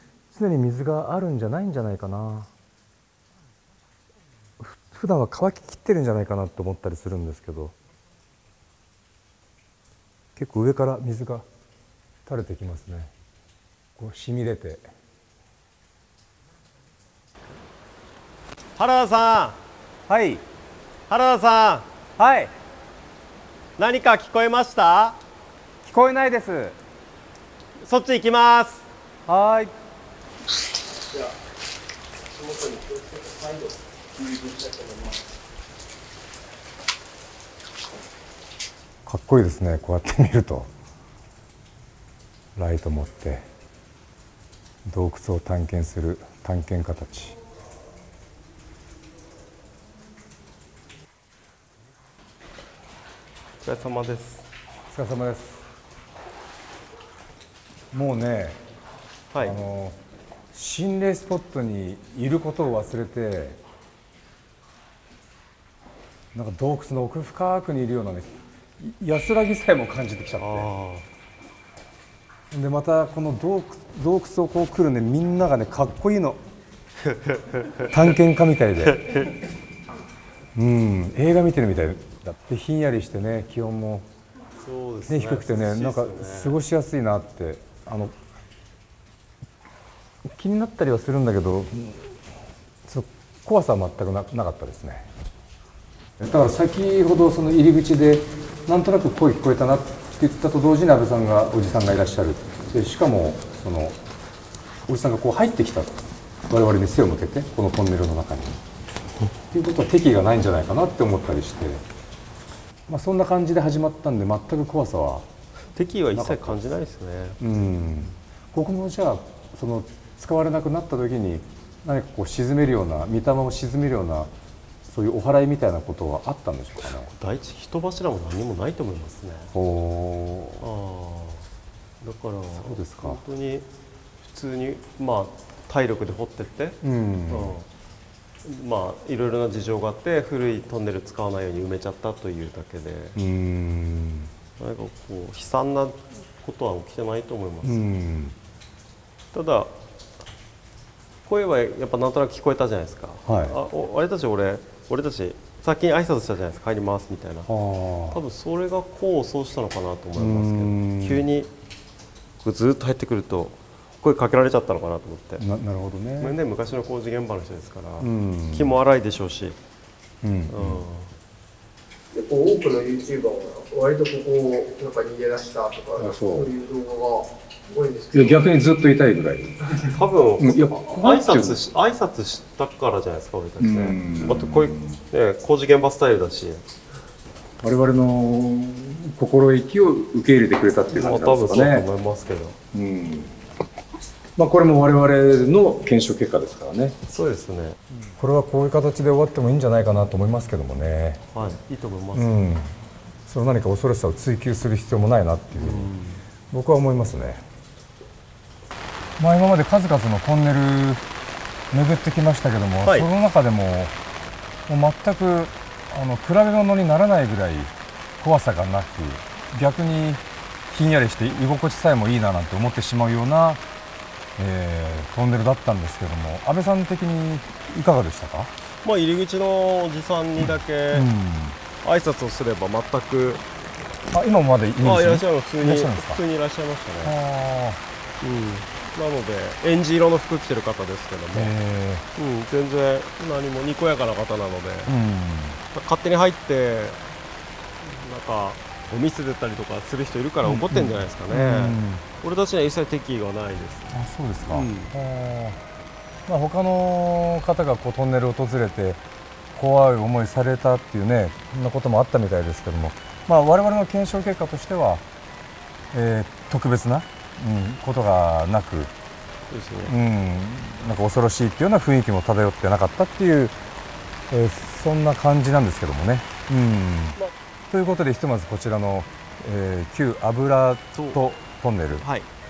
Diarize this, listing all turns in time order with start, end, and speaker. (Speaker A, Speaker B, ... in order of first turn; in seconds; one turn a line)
Speaker A: 0.3-2.5
Speaker A: 4.6-7.7
Speaker A: 10.3-11.4
Speaker A: 12.2-13.1
Speaker A: 14.0-14.8
Speaker B: 18.8-19.6
Speaker A: 20.1-20.4
Speaker B: 21.1-21.9
Speaker A: 22.2-22.5
Speaker B: 23.8-25.2
Speaker A: 25.8-26.8
Speaker B: 27.8-28.8
Speaker A: 29.3-29.7
Speaker C: 32.3-35.2
Speaker A: 39.0-40.7
Speaker A: 42.5-43.4
Speaker A: 44.9-47.4
Speaker B: 53.6-54.4
Speaker A: 54.9-55.6
Speaker A: 57.9-58.6
Speaker B: 59.3-59.6
Speaker A: 59.4-60.0
Speaker A: 60.5-63.6
Speaker A: 66.3-70.7
Speaker B: 70.4-71.0
Speaker A: 72.5-76.4
Speaker B: 77.0-78.0
Speaker A: 77.9-79.0
Speaker B: 78.8-79.3
Speaker A: 80.5-84.1
Speaker B: 84.6-86.6
Speaker A: 85.1-88.1
Speaker A: 90.2-92.1
Speaker A: 92.8-95.1
Speaker A: 96.2-104.0
Speaker A: 104.9-108.6
Speaker A: 109.3-111.8
Speaker A: 112.9-115.3
Speaker B: 115.8-117.4
Speaker A: 116.1-116.8
Speaker A: 117.4-124.3
Speaker A: 124.9-127.1
Speaker B: 126.8-129.5
Speaker A: 129.5-130.7
Speaker B: 130.6-131.4
Speaker B: 132.0-133.7
Speaker A: 132.5-133.2
Speaker B: 134.2-136.8
Speaker A: 136.8-137.5
Speaker B: 137.3-137.7
Speaker B: 138.4-143.2
Speaker A: 143.2-144.3
Speaker B: 144.6-147.8
Speaker A: 147.6-148.3
Speaker B: 149.3-149.7
Speaker B: 151.2-157.5
Speaker A: 153.2-153.6
Speaker A: 157.5-158.2
Speaker B: 158.1-161.5
Speaker A: 160.2-161.2
Speaker B: 162.4-165.4
Speaker A: 165.4-166.4
Speaker B: 166.2-169.6
Speaker A: 168.0-168.8
Speaker A: 170.2-170.8
Speaker B: 170.5-171.1
Speaker C: 172.1-178.3
Speaker A: 176.0-176.5
Speaker A: 178.1-181.6
Speaker B: 179.9-186.6
Speaker A: 183.6-185.0
Speaker A: 187.6-191.9
Speaker B: 190.9-192.6
Speaker A: 192.7-193.3
Speaker A: 194.3-196.9
Speaker B: 197.1-197.8
Speaker A: 198.2-201.3
Speaker B: 201.3-202.5
Speaker A: 202.1-202.7
Speaker A: 203.3-205.9
Speaker B: 205.6-206.2
Speaker A: 206.5-207.4
Speaker A: 209.2-211.0
Speaker A: 211.7-213.9
Speaker B: 212.8-213.1
Speaker A: 214.7-223.6
Speaker A: 224.4-228.5
Speaker B: 228.8-231.1
Speaker A: 230.4-231.6
Speaker B: 231.8-233.4
Speaker A: 234.1-236.2
Speaker B: 234.8-237.1
Speaker A: 237.0-237.8
Speaker B: 238.2-241.5
Speaker A: 241.3-242.1
Speaker B: 242.1-244.9
Speaker A: 244.8-245.6
Speaker B: 245.7-247.0
Speaker B: 247.8-253.9
Speaker A: 250.4-252.0
Speaker A: 253.9-255.6
Speaker B: 254.5-254.9
Speaker A: 256.3-259.0
Speaker A: 259.5-265.0
Speaker A: 265.9-268.9
Speaker B: 269.5-269.9
Speaker A: 269.8-273.5
Speaker A: 274.3-277.2
Speaker A: 277.7-282.1
Speaker B: 280.9-281.2
Speaker B: 282.0-282.3